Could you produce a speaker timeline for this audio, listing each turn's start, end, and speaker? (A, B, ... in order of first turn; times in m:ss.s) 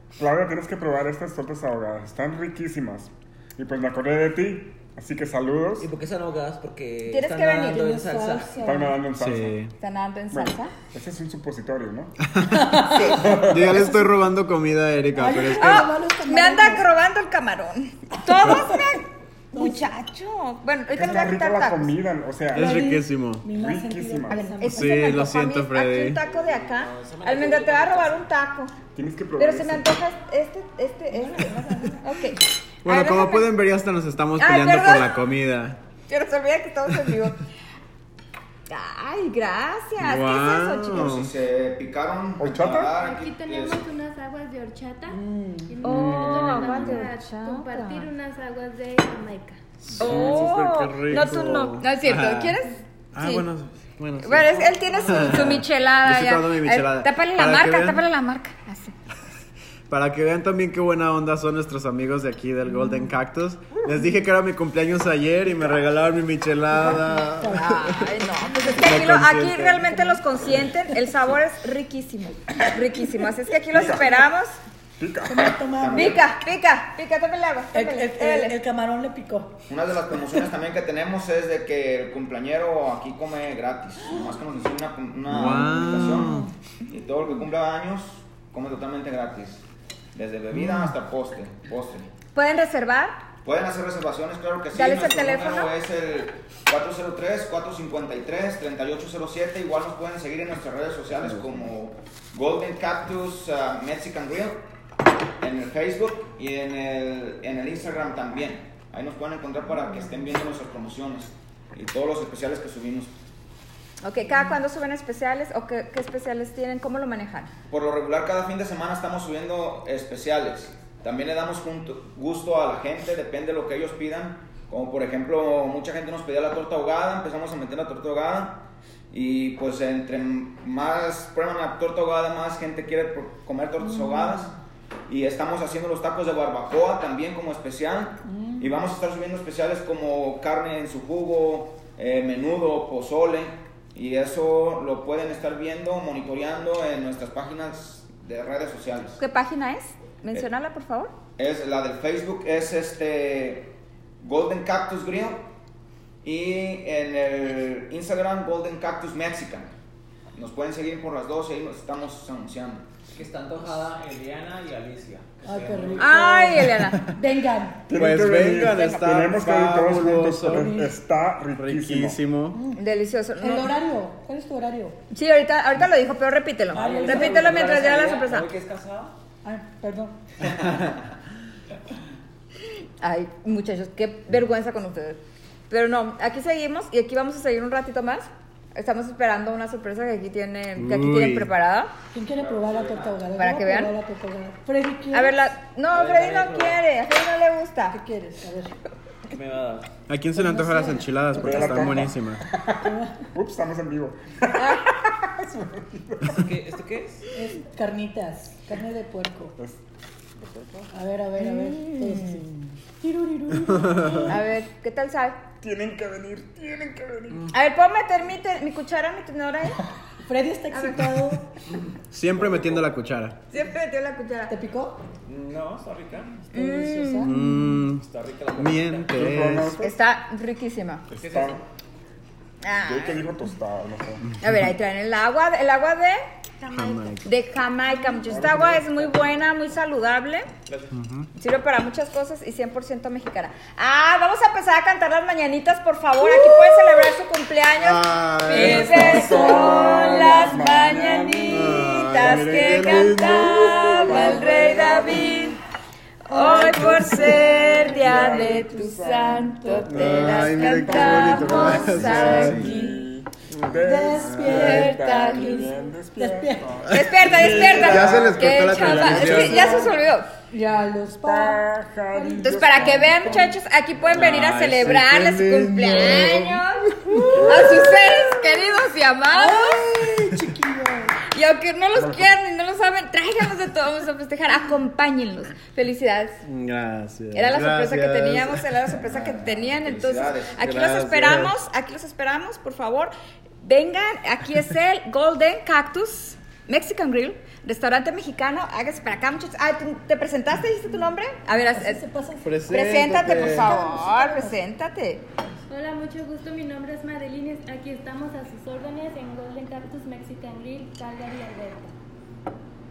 0:00.1-0:05.9 A
0:05.8-0:08.6 B
0:07.1-0:07.8 C
0:07.7-0:09.1 D
0:08.6-0:09.6 A
0:09.2-0:09.7 E
0:09.8-0:10.7 C
0:10.3-0:12.2 A
0:12.2-0:12.7 E
0:12.4-0:14.1 D
0:13.0-0:13.9 A
0:13.4-0:15.9 E
0:15.1-0:16.9 D
0:15.6-0:21.9 C
0:18.4-0:18.8 D
0:19.5-0:19.9 D
0:20.9-0:22.9 A
0:22.5-0:23.4 E
0:22.5-0:25.2 D
0:23.5-0:24.5 A
0:24.3-0:28.7 C
0:24.7-0:26.2 E
0:26.2-0:28.3 B
0:28.9-0:30.0 A
0:29.4-0:33.5 C
0:31.1-0:32.1 D
0:32.8-0:35.8 E
0:34.4-0:35.2 C
0:36.1-0:37.4 C
0:38.7-0:41.1 C
0:40.0-0:41.3 E
0:40.9-0:43.8 F
0:42.4-0:42.9 A
0:42.9-0:49.6 G
0:45.1-0:45.8 D
0:45.8-0:48.1 C
0:45.8-0:47.1 E
0:49.8-0:52.6 E
0:50.0-0:53.5 C
0:53.1-0:58.0 E
0:54.2-0:58.9 C
0:59.9-1:08.1 E
1:02.7-1:03.1 D
1:06.7-1:07.8 D
1:07.5-1:14.6 C
1:08.4-1:08.8 D
1:08.8-1:09.9 E
1:13.7-1:14.1 A
1:15.0-1:15.6 A
1:15.2-1:16.2 D
1:15.7-1:16.2 F
1:15.9-1:18.6 C
1:17.7-1:19.6 D
1:19.7-1:29.6 F
1:25.3-1:26.5 E
1:26.0-1:26.5 D
1:30.1-1:32.1 F
1:30.5-1:30.9 E
1:32.3-1:33.2 C
1:33.4-1:44.6 F
1:34.7-1:35.7 C
1:45.4-1:53.1 F
1:54.0-1:57.5 C
1:57.7-2:14.5 F
2:13.8-2:14.5 D
2:15.1-2:29.2 F
2:18.2-2:18.8 D
2:29.2-2:31.1 C
2:31.4-2:35.5 F
2:36.2-2:39.7 F
2:40.3-2:42.9 F
2:43.1-2:46.2 B
2:45.4-2:47.9 D
2:46.0-2:47.0 C
2:47.9-2:52.2 A
2:47.9-2:50.7 E
2:50.5-2:51.0 D
2:51.6-2:52.6 E
2:52.5-2:52.8 D
2:52.8-2:53.7 C
2:53.4-2:55.0 D
2:55.1-2:58.5 C
2:56.7-2:59.2 B
2:56.7-2:57.6 D
2:59.4-3:00.2 D
3:03.0-3:11.9 C
3:10.8-3:11.5 E
3:12.1-3:15.4 D
3:12.4-3:13.0 F
3:12.5-3:13.0 B
3:13.3-3:13.9 C
3:15.1-3:18.0 C
3:15.9-3:16.8 B
3:17.9-3:18.8 D
3:19.3-3:19.9 B
3:20.1-3:22.4 E
3:20.3-3:22.1 D
3:21.3-3:26.5 A
3:22.8-3:23.3 D
3:24.6-3:24.8 C
3:26.3-3:27.2 B
3:27.3-3:29.6 D
3:30.4-3:30.8 A
3:30.9-3:34.3 D
3:31.4-3:32.4 C
3:33.7-3:34.2 E
3:34.3-3:35.4 C
3:35.6-3:37.5 A
3:37.5-3:39.8 C
3:40.2-3:41.6 D
3:40.7-3:41.3 C
3:41.7-3:42.9 B
3:42.1-3:43.4 E
3:43.5-3:44.5 C
3:44.5-3:45.0 D
3:45.2-3:46.5 B
3:46.5-3:47.3 C
3:46.5-3:47.7 D
3:47.2-3:48.0 E
3:47.9-3:49.2 B
3:48.6-3:49.8 E
3:49.1-3:49.9 A
3:49.8-3:51.0 C
3:51.1-3:51.6 A
3:51.1-3:51.6 B
3:52.6-3:53.2 C
3:52.8-3:54.2 A
3:54.4-3:56.2 C
3:56.6-3:57.2 G
3:56.7-3:57.2 E
3:57.2-4:00.5 C
3:58.3-3:58.9 A
3:58.5-3:59.2 B
4:00.7-4:01.0 B
4:00.9-4:01.3 E
4:01.4-4:15.6 C
4:07.8-4:09.3 E
4:08.5-4:10.0 B
4:08.6-4:15.5 A
4:11.5-4:14.1 E
4:14.2-4:15.5 D
4:16.3-4:22.6 C
4:16.3-4:18.4 D
4:16.3-4:29.9 A
4:19.5-4:20.3 D
4:19.9-4:22.7 E
4:22.1-4:23.0 D
4:23.5-4:24.6 E
4:23.8-4:26.8 D
4:24.4-4:25.7 C
4:26.9-4:29.8 E
4:26.9-4:30.3 C
4:29.6-4:29.9 D
4:30.5-4:33.5 D
4:31.2-4:33.5 A
4:32.4-4:39.8 C
4:34.1-4:37.4 E
4:34.1-4:36.3 A
4:37.2-4:38.0 A
4:37.3-4:38.1 D
4:39.3-4:41.2 D
4:41.3-4:46.4 C
4:41.9-4:42.3 A
4:46.4-4:48.7 E
4:47.3-5:02.0 C
4:49.0-4:50.8 F
4:50.6-4:51.6 E
5:01.7-5:02.6 D
5:02.4-5:03.8 E
5:02.7-5:05.3 C
5:03.3-5:04.6 D
5:05.7-5:11.9 G